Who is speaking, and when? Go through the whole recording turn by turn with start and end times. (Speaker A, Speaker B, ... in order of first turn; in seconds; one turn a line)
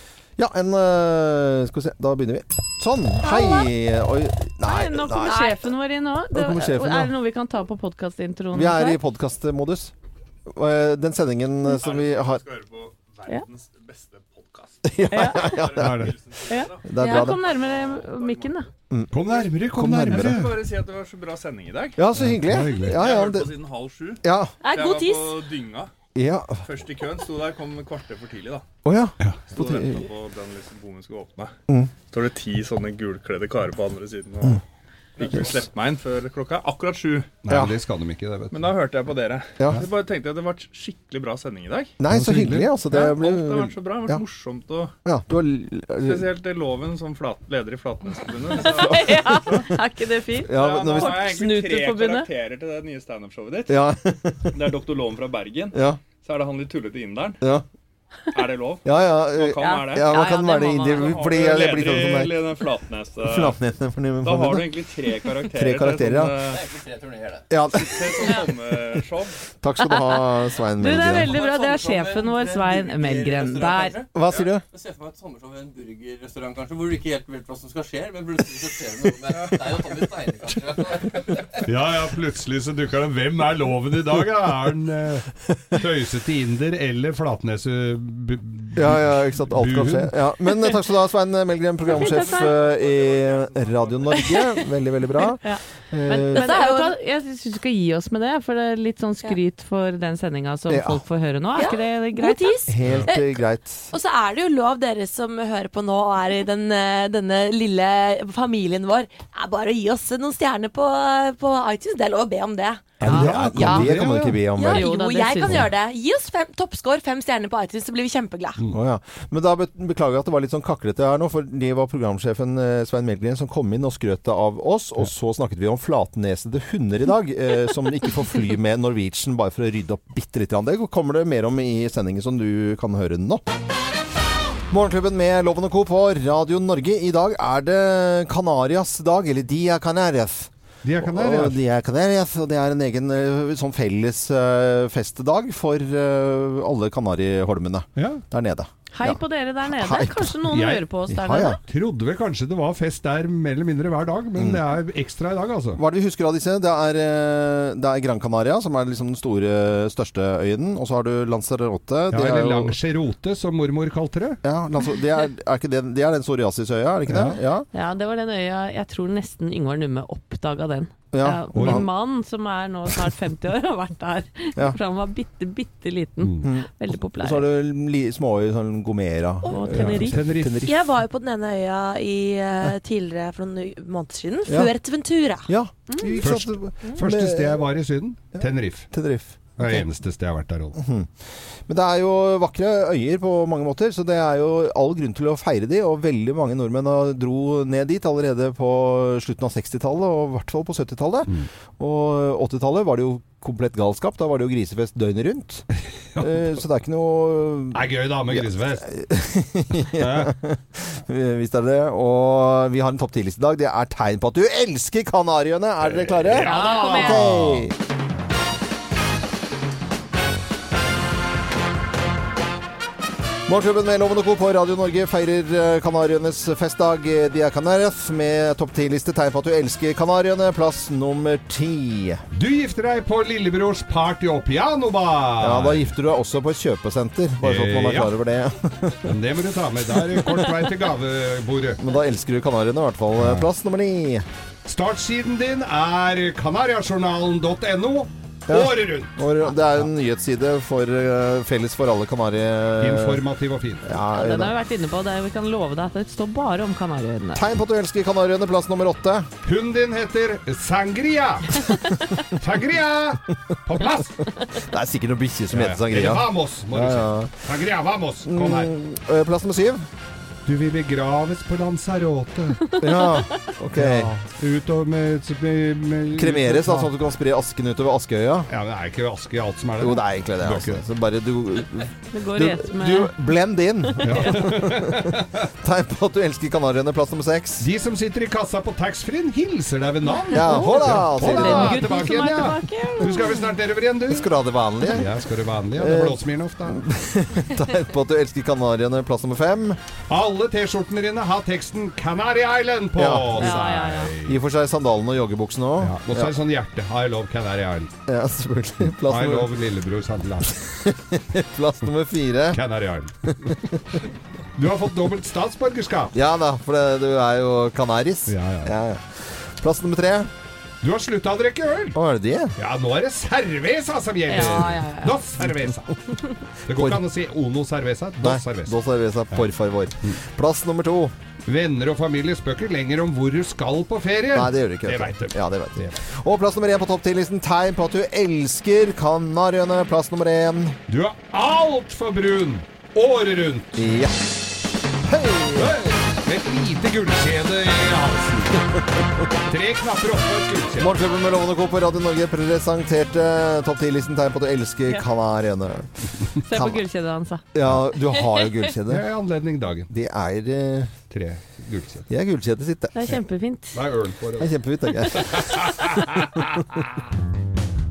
Speaker A: 0.4-5.4
Speaker B: 3.2-3.7
Speaker B: 4.7-9.0
Speaker C: 5.2-5.6
Speaker A: 6.3-7.1
Speaker A: 8.5-9.9
Speaker A: 10.5-12.4
Speaker D: 11.7-18.7
Speaker A: 14.8-16.1
Speaker B: 15.1-15.6
Speaker E: 15.8-16.1
Speaker B: 16.5-18.7
Speaker A: 16.9-17.4
Speaker E: 19.1-20.6
Speaker D: 19.3-19.6
Speaker A: 19.7-20.4
Speaker D: 20.1-22.0
Speaker A: 22.0-23.5
Speaker E: 22.2-23.0
Speaker D: 22.8-25.9
Speaker A: 24.2-24.5
Speaker C: 24.6-25.4
Speaker A: 26.1-26.6
Speaker D: 26.6-28.7
Speaker A: 28.9-30.1
Speaker D: 29.5-31.5
Speaker D: 32.1-34.6
Speaker D: 35.2-37.4
Speaker E: 37.5-38.6
Speaker D: 38.5-41.9
Speaker A: 39.6-39.9
Speaker A: 42.0-44.2
Speaker E: 42.1-42.7
Speaker D: 42.9-44.9
Speaker A: 45.0-46.3
Speaker D: 46.0-49.7
Speaker B: 48.6-52.3
Speaker A: 50.5-51.2
Speaker D: 50.5-53.8
Speaker A: 53.7-54.5
Speaker D: 54.5-57.4
Speaker A: 55.7-56.0
Speaker D: 58.3-60.2
Speaker A: 58.8-62.4
Speaker B: 59.6-61.2
Speaker D: 60.9-63.5
Speaker A: 63.2-64.7
Speaker D: 64.2-66.6
Speaker A: 65.5-66.3
Speaker F: 66.5-68.5
Speaker A: 67.5-68.2
Speaker D: 67.8-69.4
Speaker A: 69.6-71.3
Speaker B: 69.8-70.2
Speaker B: 70.8-74.0
Speaker F: 71.0-81.5
Speaker A: 74.1-74.6
Speaker E: 81.7-90.2
Speaker A: 88.8-96.6
Speaker D: 91.9-94.3
Speaker B: 91.9-92.5
Speaker B: 95.4-102.5
Speaker C: 96.3-97.0
Speaker A: 100.7-101.0
Speaker C: 101.6-103.4
Speaker A: 102.7-103.9
Speaker C: 103.9-113.1
Speaker E: 113.0-114.4
Speaker A: 113.0-114.9
Speaker B: 113.1-113.8
Speaker C: 114.5-118.6
Speaker B: 114.6-115.7
Speaker A: 118.7-133.4
Speaker A: 134.7-150.4
Speaker E: 140.8-141.6
Speaker E: 148.0-148.2
Speaker B: 148.9-151.6
Speaker E: 150.5-150.9
Speaker A: 151.1-151.6
Speaker E: 151.7-155.8
Speaker A: 155.8-162.8
Speaker E: 162.1-164.4
Speaker A: 164.4-167.7
Speaker E: 167.1-167.4
Speaker B: 167.7-177.5
Speaker A: 171.1-171.9
Speaker E: 171.6-171.9
Speaker A: 176.4-180.8
Speaker B: 179.4-180.2
Speaker E: 179.7-180.7
Speaker C: 180.7-185.5
Speaker A: 184.5-184.7
Speaker A: 185.5-187.6
Speaker E: 186.2-188.9
Speaker A: 188.4-189.8
Speaker E: 189.6-190.8
Speaker A: 190.8-191.1
Speaker A: 191.7-205.7
Speaker E: 206.1-206.5
Speaker A: 206.2-217.8
Speaker E: 207.7-208.9
Speaker E: 209.9-210.3
Speaker E: 215.8-217.7
Speaker B: 216.4-217.2
Speaker A: 223.5-232.2
Speaker E: 232.3-235.9
Speaker A: 235.4-239.1
Speaker E: 237.4-238.1
Speaker E: 239.1-241.8
Speaker A: 241.8-244.3
Speaker E: 243.2-243.5
Speaker E: 244.7-249.1
Speaker A: 248.5-253.2
Speaker E: 252.8-253.8
Speaker A: 253.8-254.6
Speaker B: 254.1-257.4
Speaker A: 257.4-259.3
Speaker E: 259.4-261.7
Speaker E: 262.3-264.3
Speaker A: 264.6-267.4
Speaker E: 265.5-268.7
Speaker A: 268.2-269.9
Speaker E: 270.5-273.2
Speaker A: 272.8-274.1
Speaker E: 273.8-276.9
Speaker A: 276.2-278.5
Speaker E: 278.5-280.8
Speaker A: 279.8-287.7
Speaker B: 282.1-283.1
Speaker E: 284.0-285.4
Speaker E: 287.6-294.3
Speaker B: 290.3-293.4
Speaker A: 290.3-291.8
Speaker A: 294.1-295.1
Speaker E: 294.9-296.8
Speaker A: 295.8-299.8
Speaker E: 300.1-304.4
Speaker A: 303.0-303.6
Speaker B: 303.4-304.1
Speaker A: 304.2-306.3
Speaker E: 305.8-307.9
Speaker A: 308.1-309.5
Speaker E: 308.9-310.6
Speaker A: 310.6-312.6
Speaker E: 312.5-313.6
Speaker E: 314.6-316.1
Speaker A: 316.1-320.3
Speaker E: 318.3-318.7
Speaker E: 320.8-322.0
Speaker A: 321.9-322.6
Speaker E: 322.6-326.0
Speaker B: 324.3-325.2
Speaker E: 326.7-328.8
Speaker A: 326.7-327.0
Speaker A: 328.2-331.1
Speaker E: 331.5-336.0
Speaker A: 334.3-340.8
Speaker E: 340.9-343.8
Speaker A: 343.8-345.8
Speaker E: 345.6-348.7
Speaker E: 349.5-350.9
Speaker A: 350.8-356.8
Speaker B: 356.4-357.4
Speaker A: 357.5-359.0
Speaker E: 358.9-359.9
Speaker A: 359.9-360.9
Speaker E: 361.1-362.1
Speaker A: 362.1-363.1
Speaker B: 362.9-363.8
Speaker E: 363.7-366.8
Speaker A: 364.4-366.6